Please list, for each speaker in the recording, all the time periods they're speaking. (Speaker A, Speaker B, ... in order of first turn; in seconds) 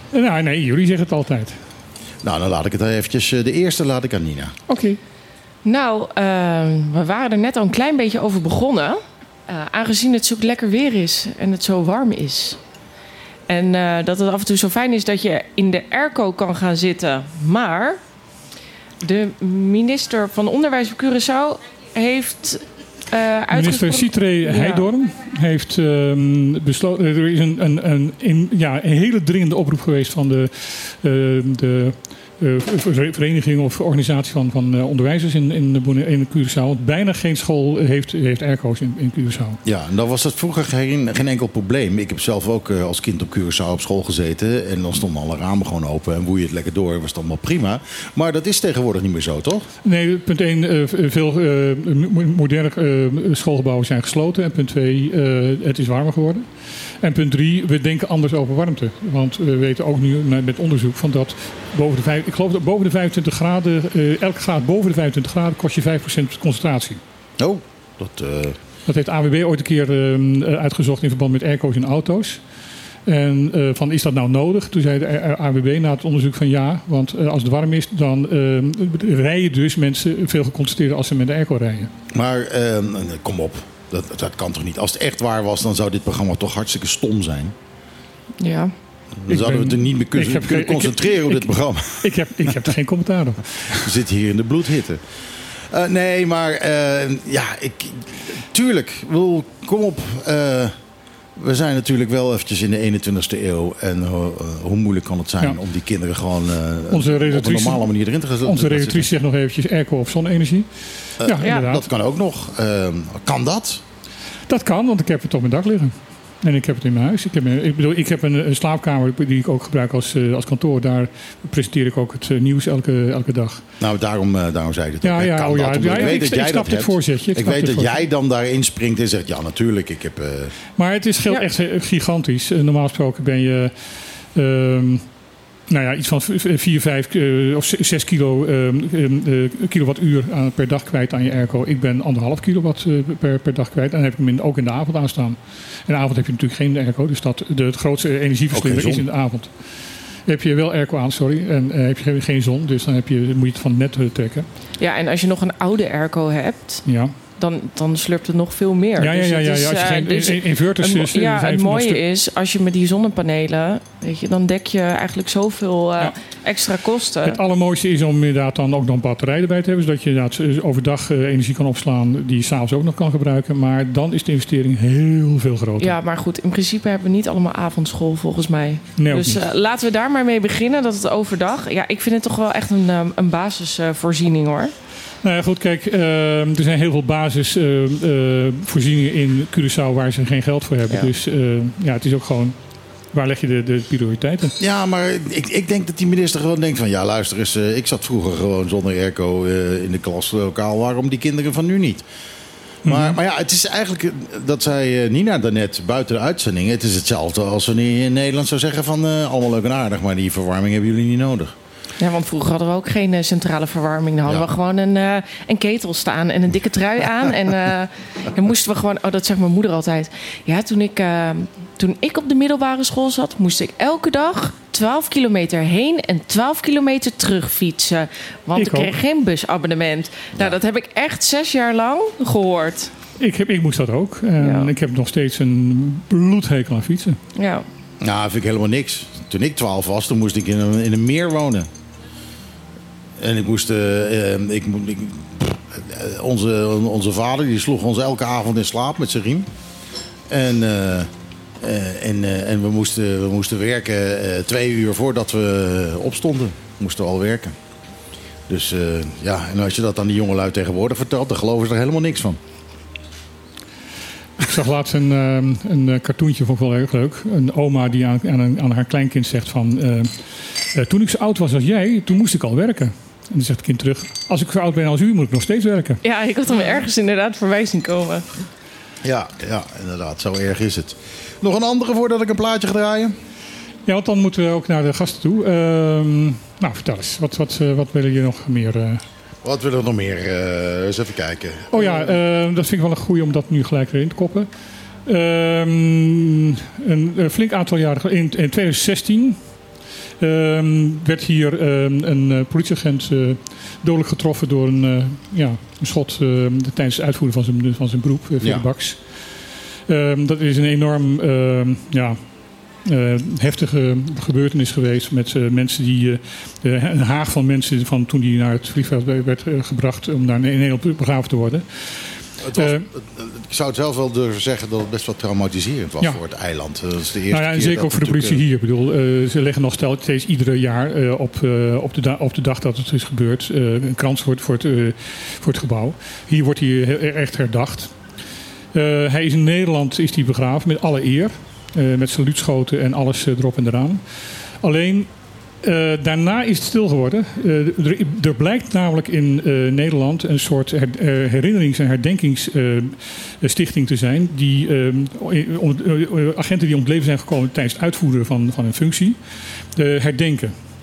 Speaker A: 0.1-1.6, 4.7-5.0, 23.5-39.6, 49.8-67.0, 68.9-72.4, 73.1-81.9, 89.3-91.5, 92.0-93.9, 106.9-107.9, 108.4-111.8, 114.5-123.6, 125.0-128.0, 130.8-135.1, 135.7-154.5, 156.8-157.1, 159.0-162.0, 167.2-175.9, 179.0-179.4, 185.2-192.6, 193.1-194.5, 202.8-203.2, 228.6-228.9, 233.2-237.2, 264.4-276.0, 283.9-289.0, 291.7-294.5, 295.0-299.7, 300.2-322.9, 327.3-338.0, 338.7-360.6
Speaker B: 2.2-4.5, 39.6-49.7, 67.4-68.6, 82.1-87.5, 89.2-92.7, 93.7-95.0, 95.7-100.8, 101.4-109.1, 111.2-113.8, 123.8-130.5, 148.5-149.1, 194.6-202.0, 202.8-211.5, 238.0-241.7, 243.2-249.5, 250.3-257.5, 258.5-262.4, 279.0-283.2, 289.4-292.2, 308.4-308.7, 322.4-328.4
Speaker C: 5.7-12.6, 13.5-18.0, 19.0-24.9, 88.4-88.7, 154.8-167.4, 175.8-184.7, 212.0-232.9, 234.4-234.7, 237.3-237.7, 276.0-278.3